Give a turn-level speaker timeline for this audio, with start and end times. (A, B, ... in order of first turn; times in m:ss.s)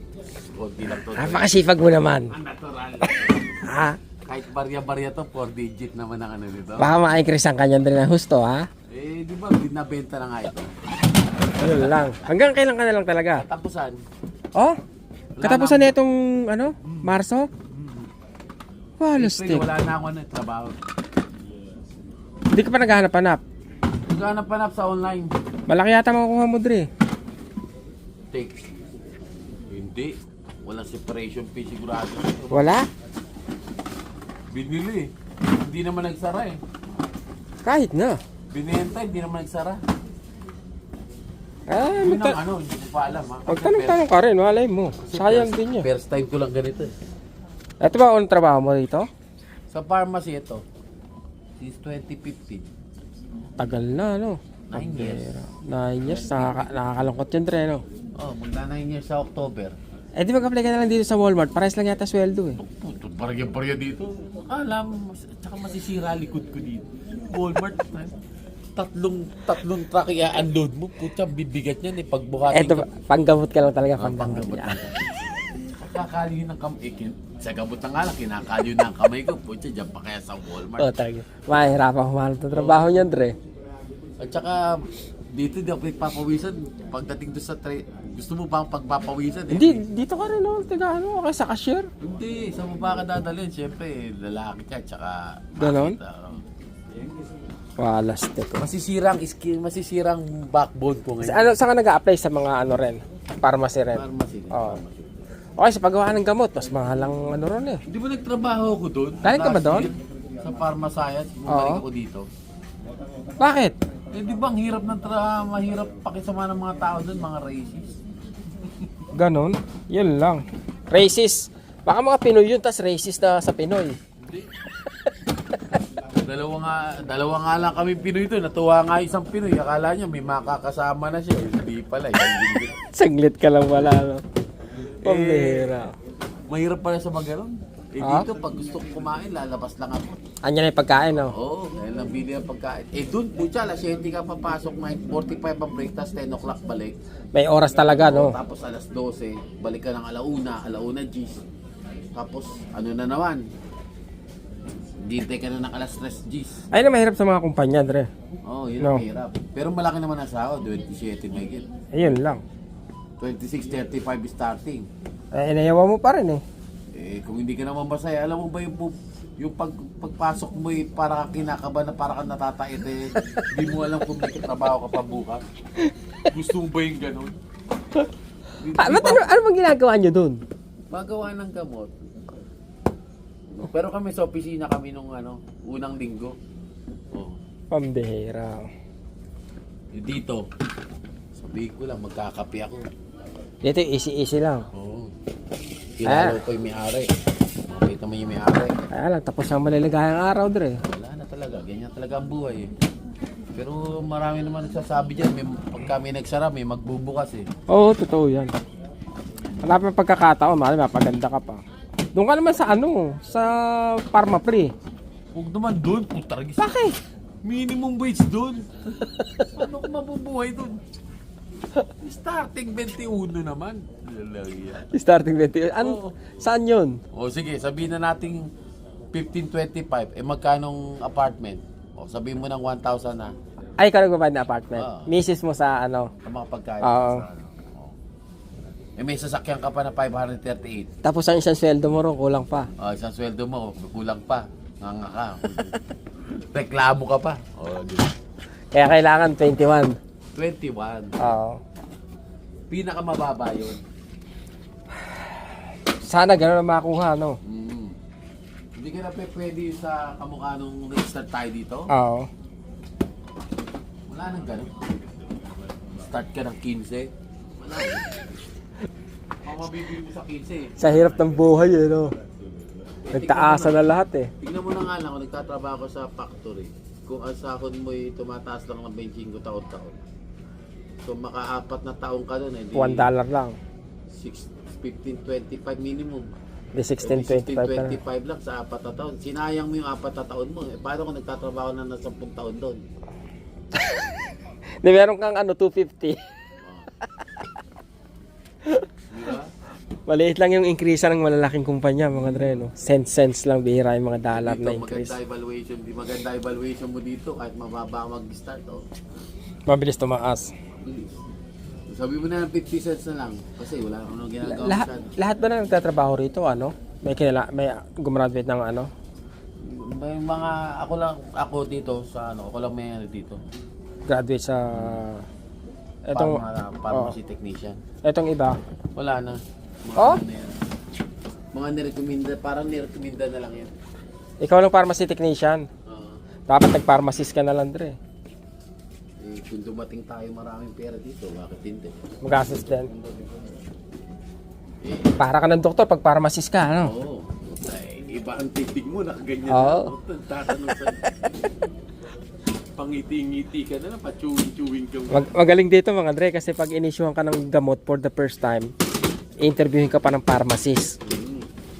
0:00.5-0:01.6 A
0:01.2-0:02.4 B
0:02.3-0:03.6 A
0:03.6-0:04.0 B
0:04.2-0:06.9 A
0:06.8-0:08.7 B
0:08.9-0:10.7 A
0:11.6-0:13.4 B
0:13.4-0:14.0 A
0:15.4-0:15.9 A
0:15.4-0:17.5 B
0:17.7-0:18.1 A
0:19.0-0:19.7 B
0:19.2-0:20.8 A
0:22.5-0:23.4 B
0:24.1-0:25.3 A
0:25.7-0:26.9 B
0:28.3-0:28.6 A
0:29.7-0:32.8 A
0:32.5-0:32.9 B
0:34.5-0:36.6 A
0:37.6-0:38.2 B
0:38.5-0:39.8 A
0:41.7-0:42.4 B
0:42.0-0:44.0 A
0:43.5-0:45.9 B
0:45.0-0:46.9 A
0:47.8-0:49.1 B
0:49.7-0:50.6 A
0:51.6-0:52.7 A
0:53.6-0:57.8 B
0:54.7-0:55.3 A
0:56.0-0:56.7 A
0:58.2-0:59.8 A
1:00.2-1:02.6 B
1:02.6-1:08.2 A
1:08.8-1:12.9 A
1:12.5-1:14.8 B
1:14.0-1:15.0 A
1:15.8-1:20.9 A
1:20.8-1:23.4 B
1:22.5-1:23.1 A
1:24.2-1:29.8 A
1:29.5-1:31.9 B
1:32.0-1:36.4 A
1:35.6-1:36.0 B
1:37.8-1:38.7 B
1:38.6-1:41.6 A
1:41.2-1:44.8 B
1:43.9-1:45.3 A
1:45.6-1:47.8 B
1:47.9-1:52.3 A
1:49.2-1:49.9 B
1:51.5-1:51.8 B
1:53.4-1:53.8 B
1:54.1-1:58.0 A
1:59.2-2:04.0 B
2:06.2-2:12.8 A
2:12.9-2:14.2 B
2:15.0-2:15.8 A
2:15.0-2:15.9 B
2:16.5-2:20.2 A
2:18.0-2:18.3 B
2:20.4-2:21.3 B
2:21.2-2:27.0 A
2:27.3-2:28.4 B
2:27.9-2:31.4 A
2:32.1-2:33.4 A
2:35.0-2:36.6 A
2:36.7-2:38.1 B
2:38.5-2:41.7 A
2:41.9-2:42.4 B
2:43.2-2:44.9 A
2:45.3-2:46.4 B
2:46.9-2:55.4 A
2:55.9-2:56.2 B
2:56.3-2:57.4 A
2:58.6-2:59.2 A
2:58.7-3:00.4 B
3:00.9-3:01.9 A
3:03.5-3:06.4 A
3:07.1-3:07.4 A
3:07.7-3:08.7 B
3:09.9-3:10.5 A
3:11.3-3:12.9 A
3:13.6-3:14.7 B
3:14.7-3:15.1 A
3:16.0-3:18.9 A
3:16.1-3:16.4 B
3:18.9-3:20.8 B
3:20.8-3:22.7 A
3:23.5-3:27.5 A
3:27.7-3:28.5 B
3:29.6-3:31.6 B
3:32.2-3:34.7 B
3:35.3-3:36.7 A
3:36.6-3:37.0 B
3:37.4-3:40.8 A
3:42.0-3:44.9 A
3:44.9-3:47.0 B
3:45.8-3:46.2 A
3:47.1-3:48.5 A
3:49.1-3:53.3 A
3:53.8-3:56.1 B
3:54.8-3:55.1 A
3:56.2-3:58.0 A
3:56.8-3:57.3 B
3:59.0-4:00.9 A
4:01.0-4:02.7 B
4:02.8-4:05.8 A
4:06.3-4:08.1 A
4:08.7-4:10.0 B
4:10.4-4:11.2 A
4:11.2-4:11.6 B
4:12.7-4:13.8 A
4:16.0-4:17.4 B
4:17.4-4:18.0 A
4:18.8-4:21.9 A
4:21.9-4:22.3 B
4:24.1-4:24.8 A
4:25.9-4:28.2 A
4:29.4-4:31.2 A
4:30.8-4:32.1 B
4:33.0-4:33.9 A
4:33.1-4:34.3 B
4:34.4-4:40.0 A
4:41.0-4:43.1 A
4:42.7-4:43.6 B
4:44.1-4:46.3 A
4:46.8-4:48.0 B
4:47.0-4:52.8 A
4:53.8-4:54.1 B
4:54.8-4:56.2 B
4:56.6-4:56.9 A
4:59.1-4:59.5 A
5:00.1-5:05.2 B
5:04.3-5:08.8 A
5:09.7-5:10.5 B
5:10.8-5:11.2 A
5:11.9-5:15.2 A
5:14.4-5:18.9 B
5:19.6-5:23.4 A
5:24.1-5:25.3 B
5:24.7-5:25.0 A
5:26.1-5:27.2 B
5:26.1-5:27.8 A
5:28.0-5:28.6 B
5:29.0-5:30.6 A
5:31.5-5:33.7 A
5:34.4-5:35.7 B
5:35.9-5:36.2 A
5:36.5-5:38.0 B
5:39.2-5:43.6 A
5:42.2-5:42.9 B
5:44.8-5:45.1 A
5:45.2-5:46.9 B
5:46.8-5:51.1 A
5:49.5-5:49.9 B
5:52.8-5:55.3 A
5:55.1-5:58.7 B
5:59.4-6:01.0 B
6:01.0-6:01.5 A